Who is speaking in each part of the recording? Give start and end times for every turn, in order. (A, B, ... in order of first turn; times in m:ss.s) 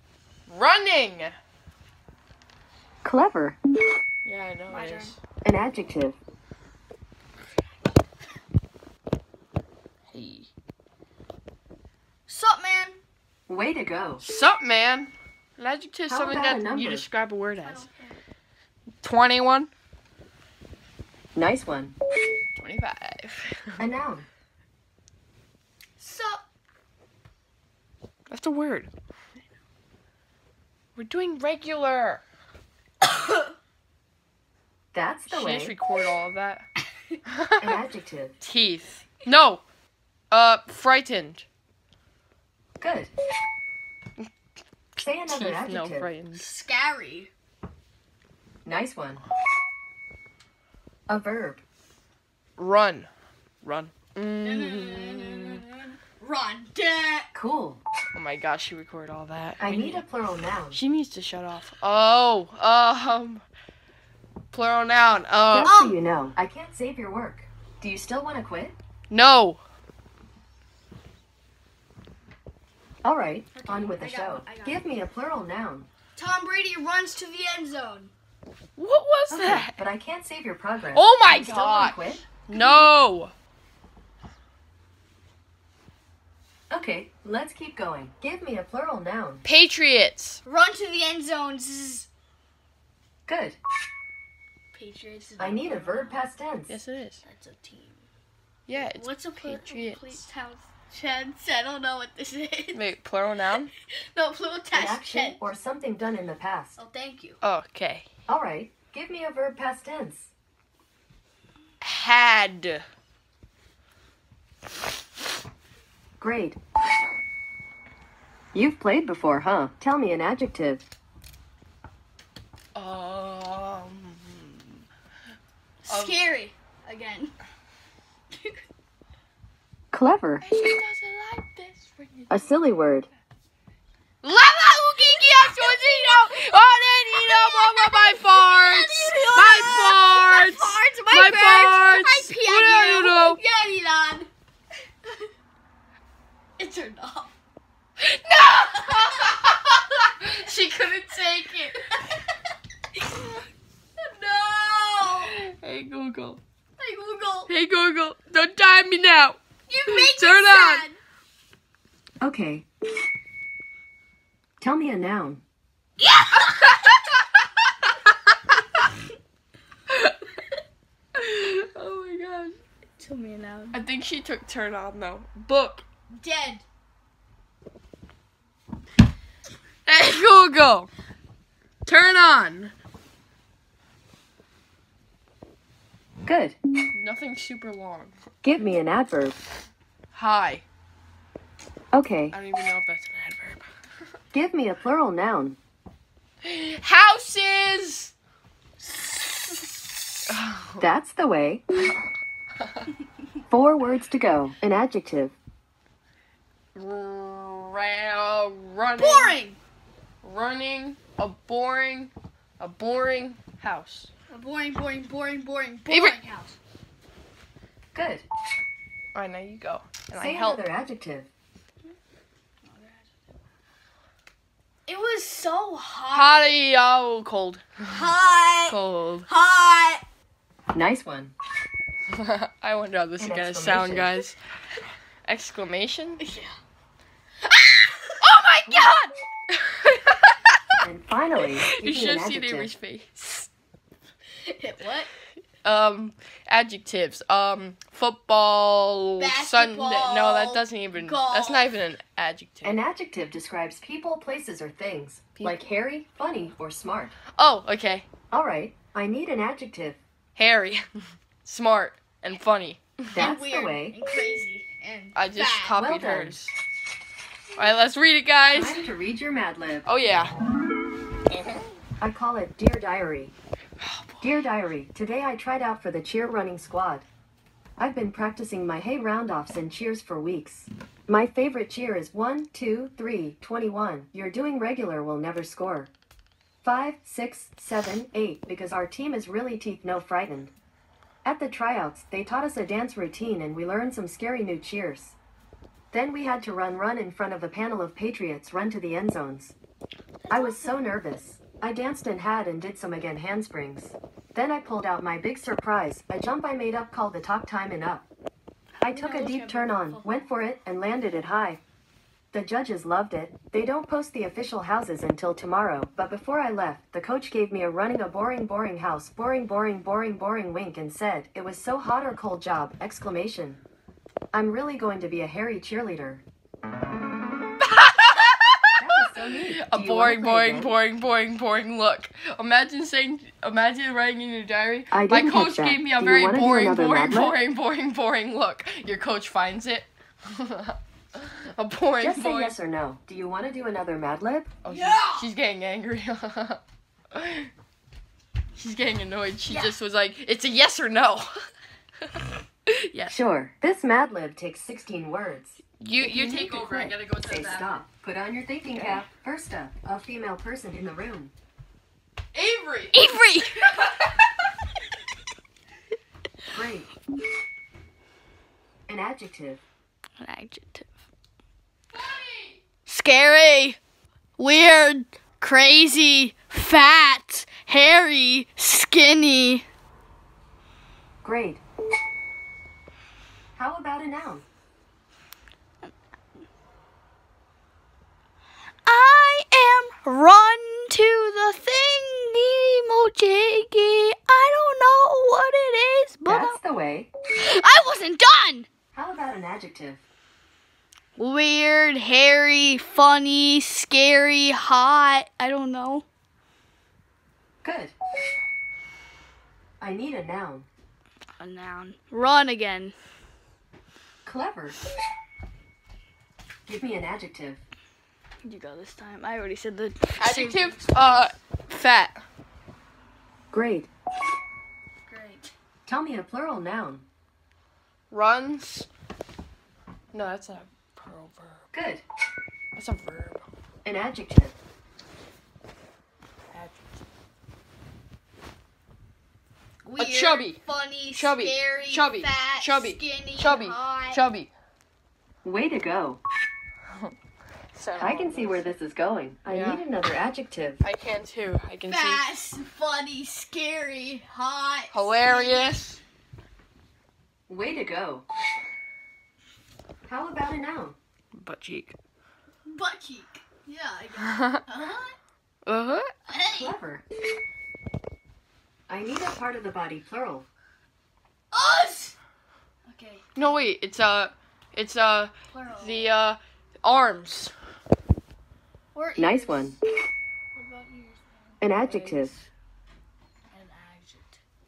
0:00.5-0:01.4 A
0:03.0-0:03.6 B
0:04.2-0:05.2 A
0:04.7-0:05.1 C
0:05.4-0:06.2 B
0:10.1-0:10.5 A
0:12.3-0:13.0 C
0:13.5-0:14.2 B
0:14.2-0:17.9 A
0:16.1-0:17.0 B
0:17.6-0:18.2 C
0:19.0-0:19.7 A
0:21.4-0:22.0 B
0:22.6-0:23.8 A
0:23.8-0:24.3 B
0:26.0-0:26.4 C
0:28.3-0:28.9 A
0:31.0-0:32.2 A
0:33.1-0:33.5 C
0:34.9-0:35.8 B
0:35.3-0:36.7 A
0:37.3-0:37.8 A
0:37.6-0:38.4 B
0:38.4-0:39.6 A
0:40.3-0:41.5 A
0:42.8-0:43.1 B
0:45.0-0:46.1 B
0:45.3-0:46.6 A
0:46.3-0:47.3 C
0:48.6-0:49.2 B
0:51.1-0:51.6 B
0:52.6-0:53.1 A
0:53.6-0:55.6 A
0:54.4-0:57.3 C
0:57.3-0:57.8 B
0:58.1-1:00.0 A
0:59.6-1:00.8 B
1:00.7-1:03.4 A
1:04.5-1:05.8 A
1:05.5-1:08.8 B
1:05.6-1:06.0 C
1:09.1-1:09.6 A
1:13.0-1:15.9 B
1:13.6-1:14.8 C
1:16.2-1:18.1 C
1:18.8-1:19.8 A
1:19.3-1:22.2 B
1:20.9-1:23.3 A
1:26.7-1:29.4 B
1:29.4-1:30.4 A
1:30.5-1:32.1 C
1:33.3-1:33.6 B
1:34.7-1:36.2 C
1:35.4-1:36.8 B
1:36.7-1:37.2 A
1:37.3-1:38.0 C
1:38.7-1:40.2 A
1:38.7-1:42.9 C
1:42.7-1:43.7 A
1:43.8-1:45.4 C
1:44.7-1:46.8 B
1:46.8-1:47.4 C
1:47.4-1:48.1 A
1:48.3-1:50.3 B
1:51.8-1:52.8 A
1:56.2-1:56.6 B
1:58.5-2:00.9 B
2:02.8-2:04.8 A
2:05.8-2:07.4 C
2:05.9-2:06.2 A
2:08.3-2:08.6 C
2:09.9-2:10.5 B
2:10.4-2:12.5 A
2:12.3-2:13.1 B
2:14.2-2:23.4 A
2:14.6-2:24.3 C
2:25.0-2:25.3 C
2:26.6-2:27.3 C
2:28.0-2:31.8 A
2:28.5-2:30.3 C
2:31.7-2:32.4 C
2:33.0-2:33.4 C
2:34.0-2:35.4 C
2:35.2-2:36.4 A
2:36.8-2:37.5 C
2:37.5-2:40.9 A
2:39.7-2:41.0 C
2:42.2-2:42.7 B
2:44.6-2:45.4 B
2:46.0-2:46.8 C
2:46.4-2:47.2 A
2:51.2-2:52.6 A
2:53.0-2:53.8 C
2:53.7-2:55.9 A
2:56.1-2:56.6 C
2:59.9-3:00.9 A
3:01.9-3:02.7 A
3:06.2-3:06.6 B
3:06.9-3:08.2 A
3:08.4-3:09.4 B
3:10.1-3:10.6 A
3:11.9-3:12.4 B
3:12.3-3:13.7 A
3:14.3-3:15.6 B
3:16.4-3:18.1 A
3:20.3-3:20.8 A
3:20.8-3:21.6 B
3:22.6-3:22.9 A
3:23.5-3:25.4 B
3:26.8-3:29.4 A
3:29.0-3:29.6 C
3:30.2-3:34.1 A
3:34.3-3:36.6 C
3:35.9-3:36.2 A
3:37.9-3:38.2 B
3:39.1-3:40.6 A
3:40.1-3:41.3 B
3:42.6-3:43.1 C
3:44.9-3:46.5 C
3:46.1-3:47.9 A
3:47.9-3:50.0 C
3:48.7-3:49.3 A
3:50.7-3:51.3 B
3:52.1-3:54.4 A
3:53.2-3:54.1 B
3:55.2-3:56.2 A
3:56.2-3:56.6 C
3:57.6-3:58.0 C
3:58.2-4:00.7 A
3:58.7-3:59.0 B
4:00.8-4:02.7 B
4:01.7-4:03.5 A
4:04.4-4:05.1 C
4:05.6-4:12.8 A
4:09.2-4:11.7 C
4:12.6-4:17.2 B
4:15.4-4:15.6 A
4:17.4-4:18.1 A
4:18.3-4:20.0 B
4:20.4-4:20.8 A
4:21.4-4:23.1 A
4:23.1-4:24.0 B
4:23.2-4:25.8 C
4:25.2-4:26.5 A
4:25.8-4:26.4 B
4:27.6-4:28.8 A
4:28.5-4:29.9 B
4:29.8-4:30.4 A
4:32.0-4:33.4 B
4:33.8-4:34.3 A
4:34.2-4:37.1 B
4:37.8-4:45.9 B
4:46.6-4:50.5 B
4:51.2-4:55.2 B
4:55.9-4:59.6 B
5:00.2-5:00.8 C
5:00.3-5:08.1 B
5:08.8-5:10.3 C
5:08.8-5:11.6 B
5:12.3-5:23.6 B
5:24.3-5:26.2 B
5:27.6-5:28.8 A
5:28.8-5:30.8 B
5:29.5-5:40.8 A
5:34.9-5:37.4 B
5:41.6-5:42.6 A
5:42.0-5:44.5 B
5:44.6-5:46.6 A
5:44.7-5:45.3 C
5:47.1-5:47.5 A
5:48.6-5:51.3 A
5:49.5-5:49.8 C
5:52.7-5:53.2 A
5:53.1-6:01.3 B
5:55.8-5:57.8 A
5:58.7-5:59.0 C
6:02.3-6:03.0 A
6:03.0-6:03.8 C
6:03.6-6:04.5 A
6:06.5-6:06.9 B
6:08.9-6:09.6 B
6:10.2-6:10.9 C
6:11.9-6:12.6 A
6:12.9-6:13.8 C
6:14.4-6:19.6 C
6:21.2-6:21.6 B
6:23.6-6:24.4 B
6:28.9-6:36.6 C
6:36.2-6:37.1 B
6:37.4-6:38.7 C
6:38.9-6:40.0 B
6:41.2-6:46.1 C
6:47.6-6:48.0 B
6:49.8-6:50.7 B
6:51.4-6:53.0 C
6:54.2-6:54.8 B
6:56.7-6:57.6 B
6:58.4-7:00.9 C
7:00.2-7:02.2 A
7:03.5-7:03.9 B
7:05.1-7:05.5 C
7:05.9-7:07.0 B
7:08.1-7:08.9 A
7:10.1-7:11.6 A
7:11.7-7:12.0 B
7:12.8-7:13.4 A
7:13.8-7:14.6 B
7:16.5-7:16.8 A
7:19.8-7:24.2 C
7:20.0-7:24.5 A
7:25.4-7:26.2 B
7:27.7-7:28.7 A
7:28.0-7:30.8 B
7:29.5-7:29.8 A
7:30.8-7:32.3 A
7:31.9-7:35.8 C
7:34.9-7:36.0 A
7:37.5-7:38.3 B
7:40.1-7:41.0 B
7:41.4-7:42.0 A
7:42.7-7:45.2 C
7:44.3-7:44.6 A
7:45.7-7:46.1 A
7:46.3-7:46.7 C
7:46.5-7:47.0 B
7:48.9-7:50.5 B
7:51.5-7:52.2 C
7:52.9-7:53.7 C
7:53.4-7:57.5 A
7:55.5-7:56.2 C
7:58.9-7:59.8 C
7:59.2-7:59.8 B
8:00.6-8:02.3 C
8:01.6-8:02.3 B
8:03.5-8:04.4 C